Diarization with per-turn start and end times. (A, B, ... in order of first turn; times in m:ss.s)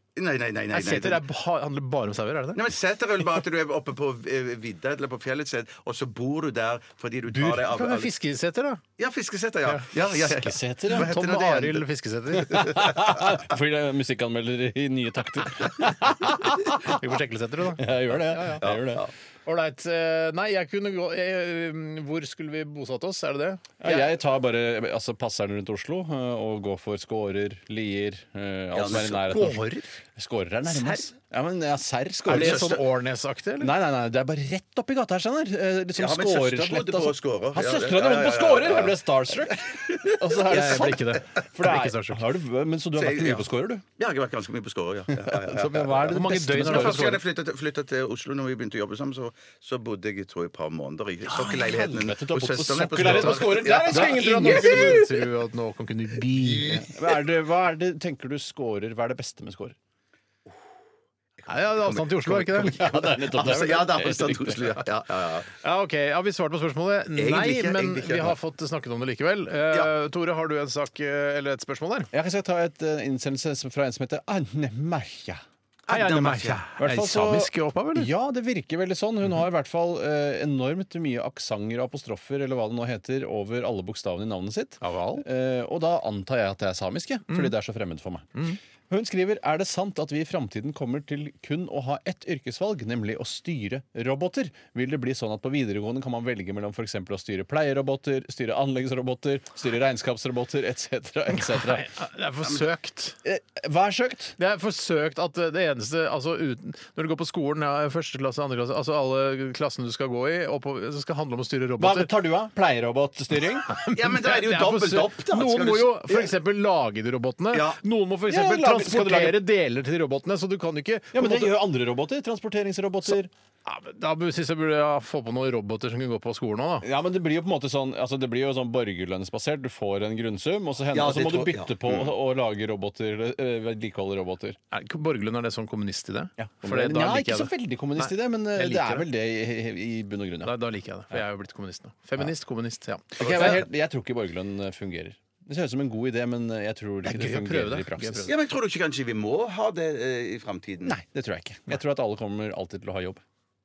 0:00.2-0:01.2 A
0:00.7-0:02.6 B
0:02.5-0:08.1 A
0:07.3-0:08.8 B
0:09.0-0:11.9 A
0:10.1-0:11.1 C
0:10.9-0:12.7 B
0:12.4-0:13.4 A
0:12.5-0:17.0 C
0:16.8-0:18.6 B
0:17.8-0:19.1 C
0:18.6-0:19.1 A
0:19.4-0:24.1 B
0:23.8-0:32.8 C
0:28.7-0:29.3 A
0:29.3-0:29.9 B
0:30.7-0:31.1 B
0:32.2-0:32.8 A
0:32.3-0:33.7 B
0:33.6-0:43.8 C
0:35.9-0:41.2 A
0:40.4-0:42.2 B
0:43.0-0:55.0 A
0:45.2-0:47.1 C
0:46.0-0:47.2 B
0:51.3-0:55.1 C
0:53.0-0:56.9 B
0:56.2-0:57.2 A
0:56.9-0:59.8 C
1:01.4-1:05.5 A
1:01.5-1:02.8 B
1:02.4-1:04.8 C
1:05.6-1:12.1 B
1:07.1-1:08.4 A
1:12.1-1:15.4 C
1:15.9-1:16.6 A
1:15.9-1:18.1 B
1:16.8-1:41.9 C
1:24.8-1:25.2 B
1:41.4-1:43.2 B
1:43.2-1:44.4 C
1:44.4-1:52.1 B
1:51.8-1:53.7 C
1:53.6-2:01.6 B
1:53.9-1:56.3 A
1:57.5-1:57.8 A
1:58.3-1:59.4 C
2:01.1-2:03.3 C
2:03.6-2:06.9 B
2:06.8-2:14.6 C
2:10.9-2:12.1 A
2:14.7-2:19.1 B
2:16.4-2:20.5 C
2:20.4-2:23.6 B
2:23.2-2:28.3 C
2:23.2-2:23.6 A
2:27.0-2:28.3 B
2:28.2-2:31.0 A
2:30.9-2:33.2 C